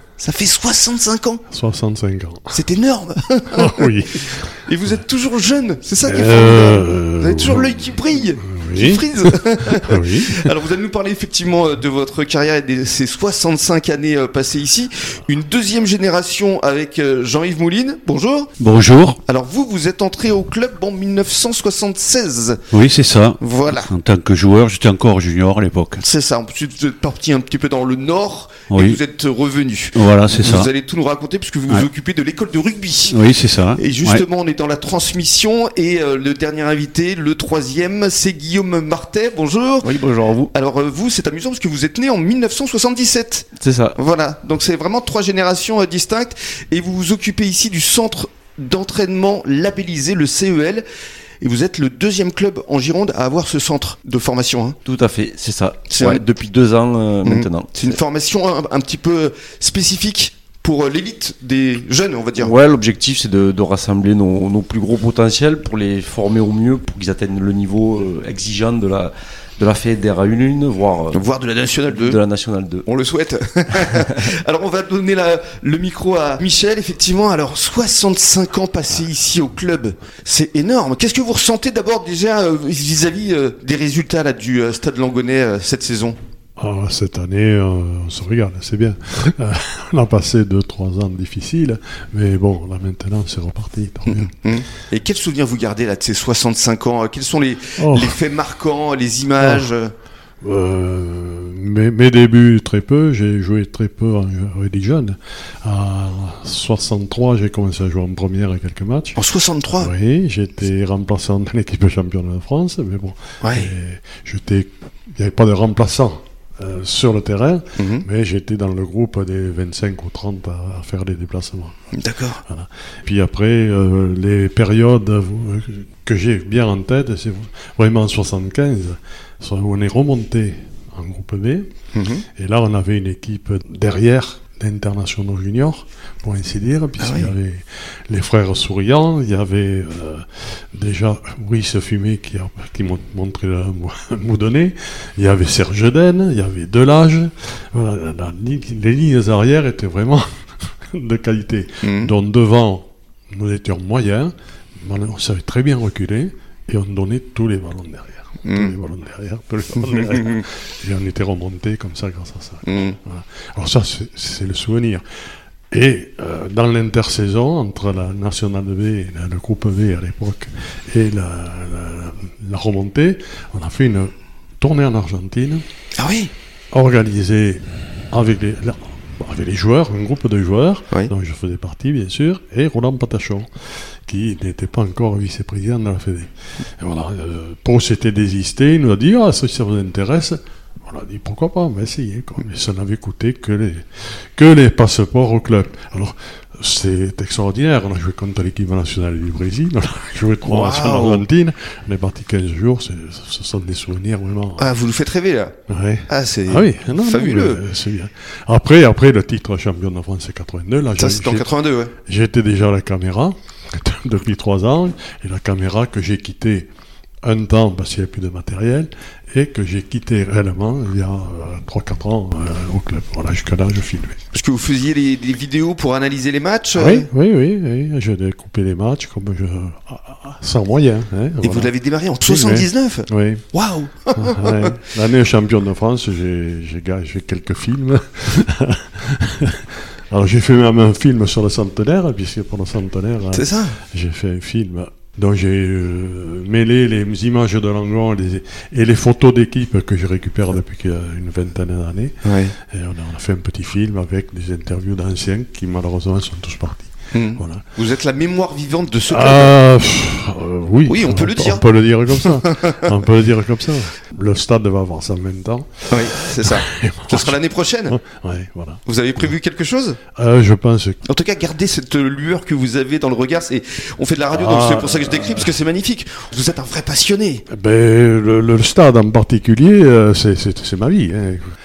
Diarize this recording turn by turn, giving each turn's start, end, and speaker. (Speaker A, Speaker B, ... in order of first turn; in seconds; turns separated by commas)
Speaker A: 0.2-1.4, Speaker B: 1.5-2.6, Speaker A: 2.5-3.9, Speaker B: 3.5-4.3, Speaker A: 4.6-18.5, Speaker B: 6.0-10.5, Speaker C: 18.6-19.2, Speaker A: 19.2-22.6, Speaker C: 22.7-26.0, Speaker A: 23.4-23.9, Speaker A: 26.0-33.2, Speaker C: 28.7-29.0, Speaker C: 29.9-30.7, Speaker C: 33.1-34.2, Speaker A: 33.8-39.9, Speaker D: 39.8-40.5, Speaker A: 40.5-50.9, Speaker D: 43.6-44.0, Speaker A: 51.4-54.8, Speaker D: 54.9-58.0, Speaker A: 55.9-56.2, Speaker A: 57.2-62.5, Speaker D: 62.4-71.2, Speaker A: 71.1-72.2, Speaker D: 71.9-72.8, Speaker A: 72.9-86.2, Speaker B: 86.6-94.3, Speaker A: 94.1-99.9, Speaker B: 97.8-98.2, Speaker B: 99.4-99.7, Speaker B: 100.4-109.2, Speaker A: 109.2-109.9, Speaker B: 109.8-121.8, Speaker A: 113.4-113.7, Speaker A: 117.8-118.1, Speaker A: 121.9-122.4, Speaker B: 122.5-131.7, Speaker A: 131.9-132.2, Speaker B: 132.3-150.3, Speaker A: 137.0-137.3, Speaker B: 150.9-165.0, Speaker A: 151.8-152.1, Speaker A: 158.4-158.8, Speaker A: 159.8-160.4, Speaker A: 162.7-163.0, Speaker B: 165.7-175.6, Speaker A: 176.0-176.3, Speaker B: 176.7-183.5, Speaker B: 184.1-204.7, Speaker A: 200.4-201.3, Speaker A: 204.6-205.6, Speaker B: 205.7-211.5, Speaker A: 206.1-207.6, Speaker A: 211.0-211.9, Speaker B: 212.1-216.7, Speaker B: 217.2-224.2, Speaker A: 224.3-227.1, Speaker B: 226.8-231.7, Speaker A: 231.4-234.8, Speaker B: 232.2-233.4, Speaker B: 234.1-257.6, Speaker A: 243.3-243.8, Speaker A: 252.2-252.6, Speaker A: 257.1-259.6, Speaker B: 259.1-269.3, Speaker A: 260.9-262.9, Speaker A: 265.9-268.0, Speaker A: 268.9-270.0, Speaker B: 270.1-271.0, Speaker A: 271.1-277.4, Speaker B: 274.3-275.6, Speaker B: 277.5-281.6